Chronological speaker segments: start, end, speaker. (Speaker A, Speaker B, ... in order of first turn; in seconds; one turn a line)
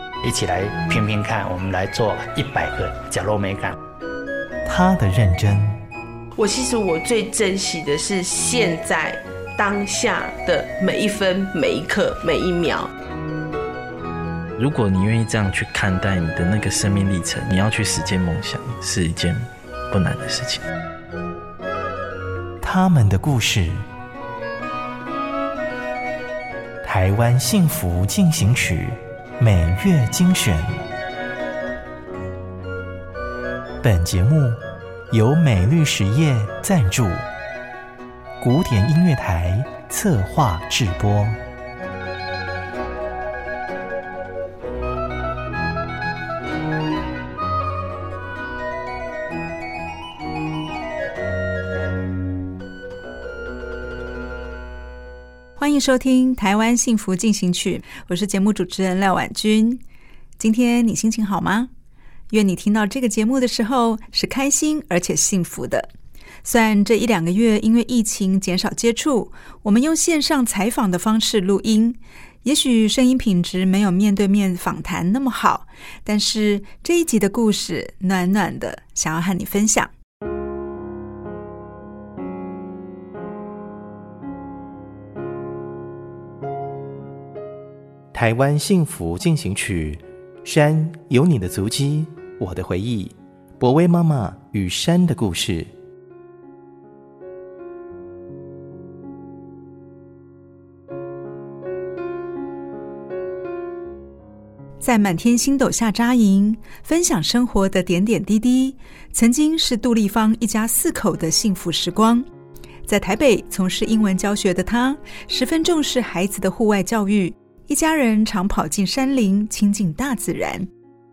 Speaker A: 0.2-3.7
Speaker B: 4.6-5.8
Speaker C: 6.4-12.9
Speaker D: 14.6-20.6
Speaker B: 22.6-23.8
Speaker B: 26.8-30.6
Speaker B: 33.8-34.6
Speaker B: 35.1-37.2
Speaker B: 38.4-41.4
Speaker E: 55.6-59.8
Speaker E: 60.4-61.7
Speaker E: 62.3-65.9
Speaker E: 66.4-79.9
Speaker B: 88.1-95.7
Speaker E: 104.8-112.2
Speaker E: 112.8-120.7